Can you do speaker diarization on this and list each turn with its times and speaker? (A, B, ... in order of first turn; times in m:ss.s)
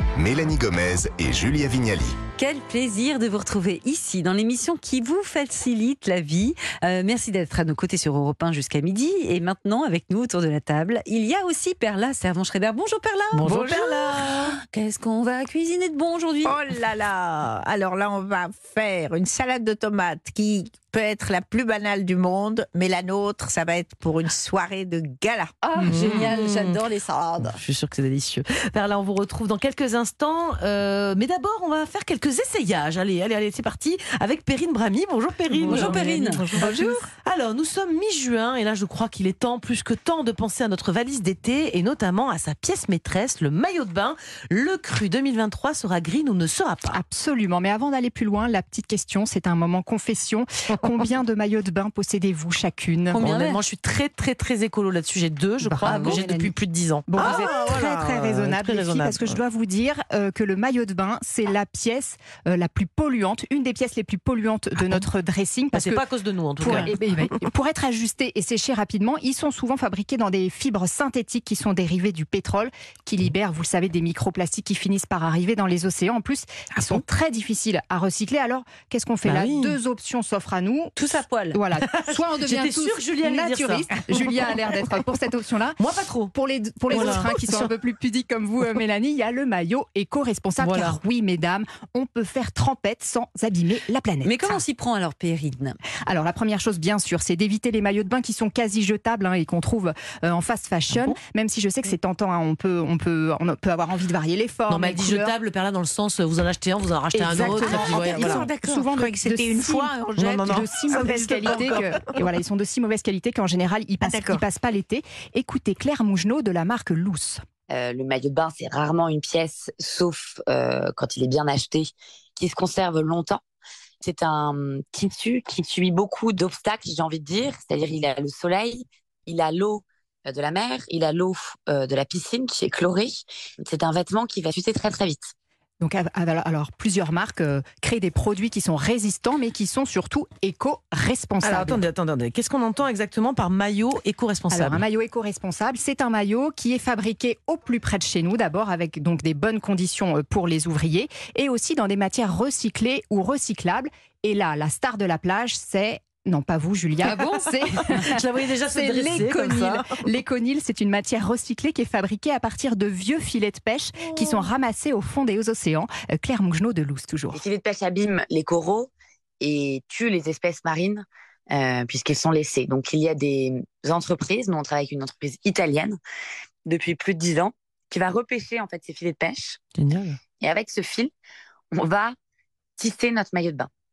0:00.2-0:02.1 A
0:02.4-0:16.6 B
0:13.3-0:14.6 C
0:13.5-0:13.8 D
0:16.4-0:25.5 D
0:25.6-0:27.6 B
0:25.8-0:26.8 C
0:27.4-0:47.0 C
0:35.7-0:36.5 B
0:35.7-0:37.0 E
0:46.9-0:53.2 E
0:53.1-0:53.6 B
0:53.2-0:59.4 C
0:55.6-0:56.5 E
0:55.8-0:56.2 B
0:57.1-1:06.0 E
1:04.8-1:05.1 C
1:05.7-1:07.4 C
1:06.6-1:21.0 E
1:16.8-1:17.0 C
1:19.2-1:19.8 C
1:21.0-1:21.6 B
1:21.5-1:25.8 E
1:21.9-1:24.6 C
1:25.8-1:26.3 C
1:26.3-1:34.6 E
1:26.9-1:27.7 C
1:30.6-1:31.0 C
1:34.2-1:35.8 B
1:36.1-1:45.4 E
1:44.7-1:48.5 C
1:47.1-1:57.4 E
1:47.5-1:51.7 D
1:50.2-1:50.7 C
1:54.0-1:54.4 D
1:57.7-2:03.4 F
2:04.0-2:15.3 F
2:15.8-2:21.8 E
2:21.4-2:24.8 C
2:24.5-2:47.4 E
2:37.7-2:39.9 C
2:44.1-2:44.5 C
2:47.3-2:56.0 F
2:56.7-2:59.6 F
2:59.8-3:00.2 C
3:00.4-3:01.1 F
3:01.7-3:02.2 F
3:02.8-3:03.7 F